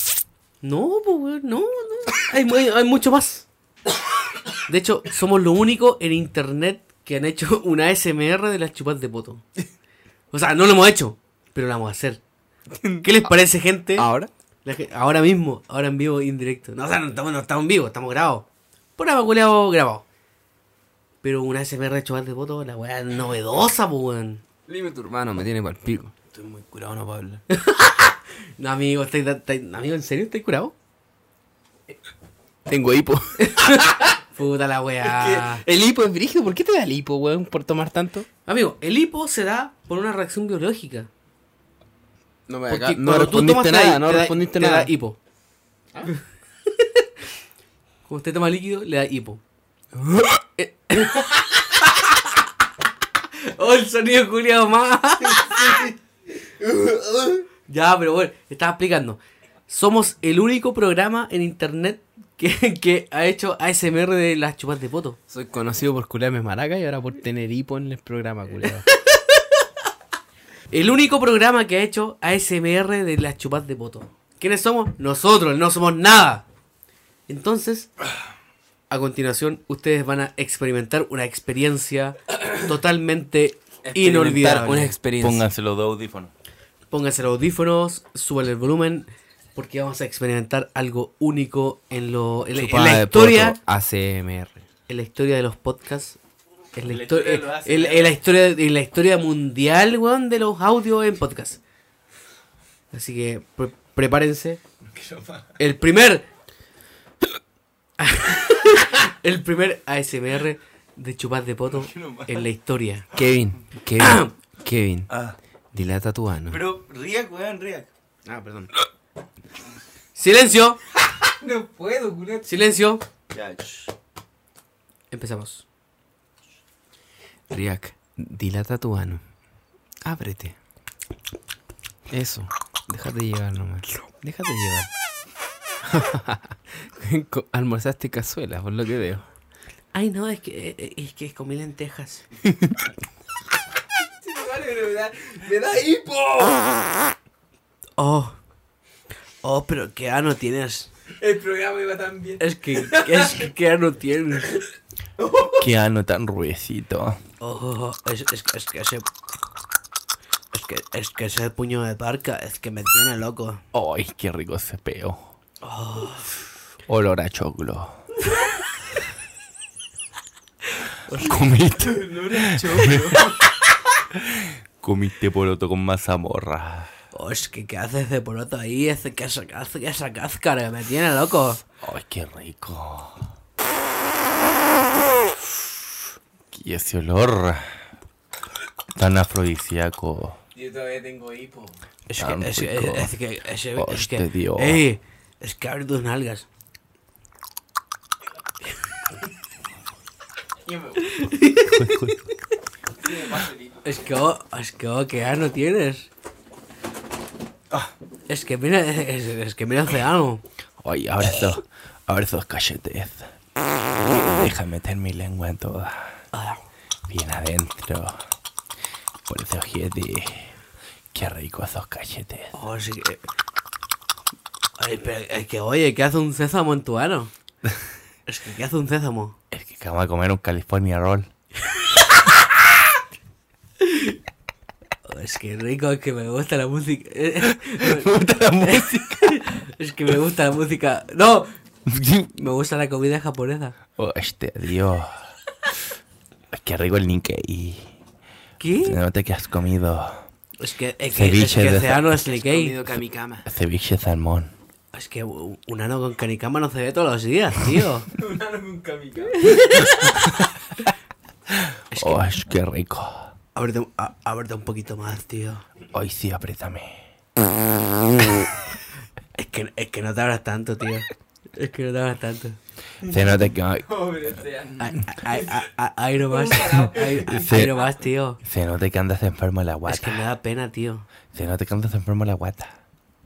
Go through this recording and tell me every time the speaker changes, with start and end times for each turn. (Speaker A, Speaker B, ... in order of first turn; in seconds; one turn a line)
Speaker A: 0.6-3.5
Speaker A: 4.7-9.4
Speaker A: 10.3-12.2
Speaker B: 12.8-13.3
Speaker A: 13.0-14.1
Speaker B: 13.9-14.3
Speaker A: 14.6-20.0
Speaker A: 21.2-24.4
Speaker B: 24.7-27.4
Speaker A: 27.5-30.7
Speaker B: 32.6-34.0
Speaker A: 33.4-35.6
Speaker B: 35.0-38.3
Speaker A: 38.5-41.1
Speaker B: 42.5-44.9
Speaker A: 42.7-45.2
Speaker A: 46.7-47.0
Speaker A: 48.1-49.4
Speaker B: 49.9-50.4
Speaker A: 50.6-52.2
Speaker A: 53.3-55.9
Speaker A: 57.6-65.2
Speaker B: 65.3-68.9
Speaker A: 68.9-69.6
Speaker A: 70.7-76.4
Speaker A: 77.3-77.9
Speaker A: 78.9-85.0
Speaker B: 83.8-85.4
Speaker C: 85.2-86.3
Speaker A: 86.9-93.6
Speaker B: 92.5-94.6
Speaker A: 94.9-96.2
Speaker A: 96.7-101.6
Speaker C: 96.8-98.1
Speaker A: 102.9-104.6
Speaker C: 104.9-105.4
Speaker A: 105.6-106.2
Speaker A: 108.0-113.1
Speaker C: 111.7-112.5
Speaker B: 113.1-115.1
Speaker A: 114.0-114.3
Speaker C: 115.1-115.3
Speaker B: 115.7-116.6
Speaker C: 116.5-117.9
Speaker B: 118.2-118.7
Speaker A: 120.2-120.8
Speaker B: 121.1-122.7
Speaker A: 122.5-123.0
Speaker C: 123.3-123.8
Speaker A: 125.1-125.6
Speaker B: 127.5-129.2
Speaker B: 130.0-130.6
Speaker B: 132.1-134.9
Speaker B: 135.8-139.2
Speaker A: 139.9-142.2
Speaker B: 144.2-146.8
Speaker A: 148.0-148.4
Speaker A: 149.4-150.9
Speaker B: 151.2-153.5
Speaker A: 152.4-154.6
Speaker B: 155.2-155.6
Speaker C: 155.6-157.2
Speaker A: 157.4-159.1
Speaker A: 160.5-163.6
Speaker C: 163.7-165.3
Speaker A: 165.6-166.3
Speaker C: 166.9-168.0
Speaker A: 171.1-171.4
Speaker C: 171.2-173.2
Speaker B: 171.7-173.4
Speaker C: 174.2-176.9
Speaker A: 177.1-181.6
Speaker C: 181.8-183.2
Speaker C: 186.5-187.7
Speaker C: 188.9-190.4
Speaker B: 190.5-191.8
Speaker A: 192.1-196.5
Speaker C: 192.2-193.1
Speaker C: 193.8-194.8
Speaker B: 200.6-201.2
Speaker A: 201.1-202.2
Speaker C: 201.7-202.2
Speaker B: 203.0-203.8
Speaker A: 203.8-206.1
Speaker A: 208.3-210.4
Speaker C: 210.8-213.3
Speaker C: 214.0-216.1
Speaker A: 216.3-216.6
Speaker C: 217.1-218.2
Speaker C: 219.3-220.5
Speaker C: 221.1-222.5
Speaker A: 222.5-223.2
Speaker A: 224.8-227.3
Speaker A: 228.3-229.3
Speaker C: 229.5-231.3
Speaker A: 233.8-234.2
Speaker A: 235.1-241.5
Speaker C: 237.7-239.4
Speaker C: 241.9-242.3
Speaker A: 242.3-243.8
Speaker C: 244.0-245.2
Speaker C: 246.5-247.9
Speaker A: 248.6-249.0
Speaker C: 248.8-250.2
Speaker A: 250.6-252.8
Speaker C: 251.1-252.0
Speaker B: 252.2-253.5
Speaker C: 253.4-254.5
Speaker A: 254.9-258.1
Speaker B: 258.1-259.6
Speaker A: 259.4-260.2
Speaker C: 259.9-260.3
Speaker A: 261.9-262.3
Speaker C: 262.0-263.3
Speaker A: 263.5-265.6
Speaker C: 265.9-267.0
Speaker A: 269.3-272.6
Speaker C: 273.0-274.0
Speaker B: 273.8-275.6
Speaker A: 274.8-278.4
Speaker B: 276.2-277.9
Speaker C: 277.3-277.7
Speaker C: 278.4-280.2
Speaker A: 279.9-281.1
Speaker C: 281.3-282.7